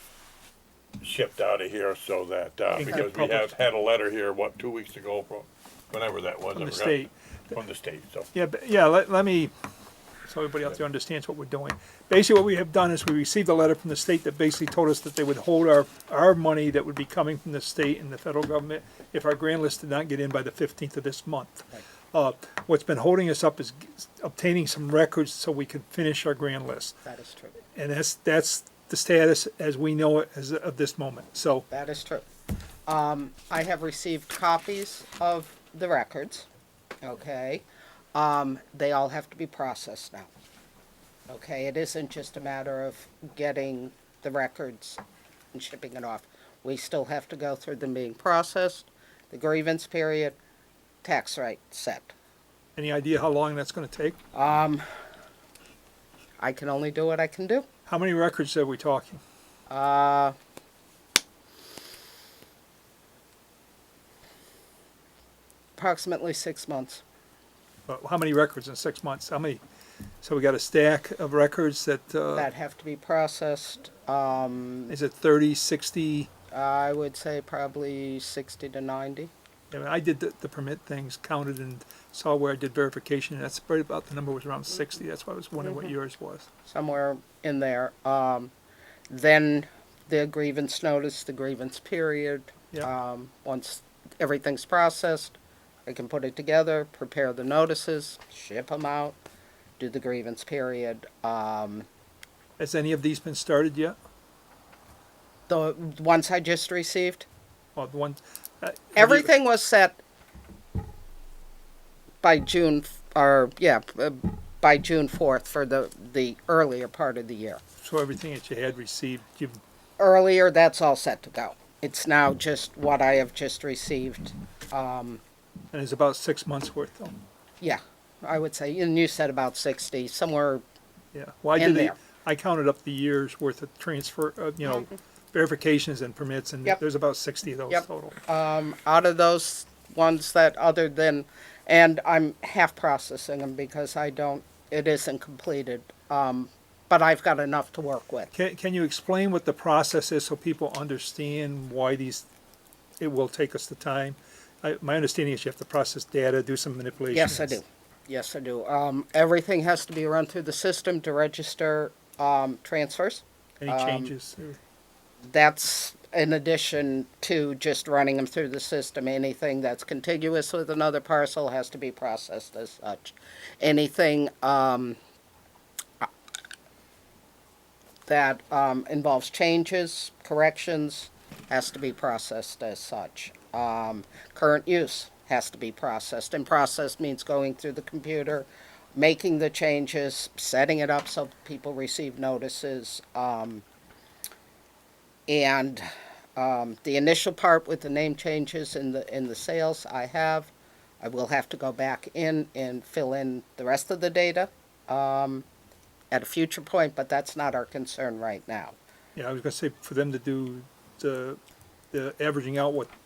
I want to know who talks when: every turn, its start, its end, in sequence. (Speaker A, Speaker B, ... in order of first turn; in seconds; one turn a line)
Speaker A: 1.0-8.3
Speaker B: 2.7-3.5
Speaker B: 6.5-7.5
Speaker B: 8.3-9.5
Speaker B: 10.3-27.0
Speaker C: 27.0-27.6
Speaker B: 27.7-31.6
Speaker C: 31.7-32.2
Speaker C: 32.9-36.5
Speaker C: 37.0-40.3
Speaker C: 41.3-45.0
Speaker C: 45.5-50.4
Speaker C: 51.0-52.1
Speaker B: 52.8-54.1
Speaker C: 54.3-54.8
Speaker C: 56.4-57.6
Speaker B: 57.9-59.2
Speaker C: 59.7-60.3
Speaker C: 65.8-67.0
Speaker B: 67.9-69.6
Speaker B: 70.2-72.5
Speaker C: 72.3-74.9
Speaker B: 74.9-76.3
Speaker C: 76.5-79.3
Speaker B: 79.7-86.5
Speaker C: 86.7-88.5
Speaker C: 89.1-99.2
Speaker C: 99.8-101.8
Speaker B: 102.6-104.0
Speaker C: 105.5-107.2
Speaker B: 107.8-109.3
Speaker C: 109.0-110.0
Speaker C: 112.2-117.6
Speaker B: 117.8-119.6
Speaker C: 120.0-125.2
Speaker B: 125.7-127.2
Speaker C: 127.6-130.6
Speaker B: 131.1-138.2
Speaker C: 131.6-132.0
Speaker C: 137.7-148.3
Speaker B: 148.3-152.2
Speaker B: 153.0-157.6
Speaker C: 157.1-164.1
Speaker B: 163.6-164.6
Speaker C: 165.2-175.0
Speaker C: 178.1-193.6
Speaker C: 195.3-200.5
Speaker C: 201.0-205.4
Speaker C: 206.1-208.8
Speaker B: 209.2-211.4
Speaker B: 211.9-212.9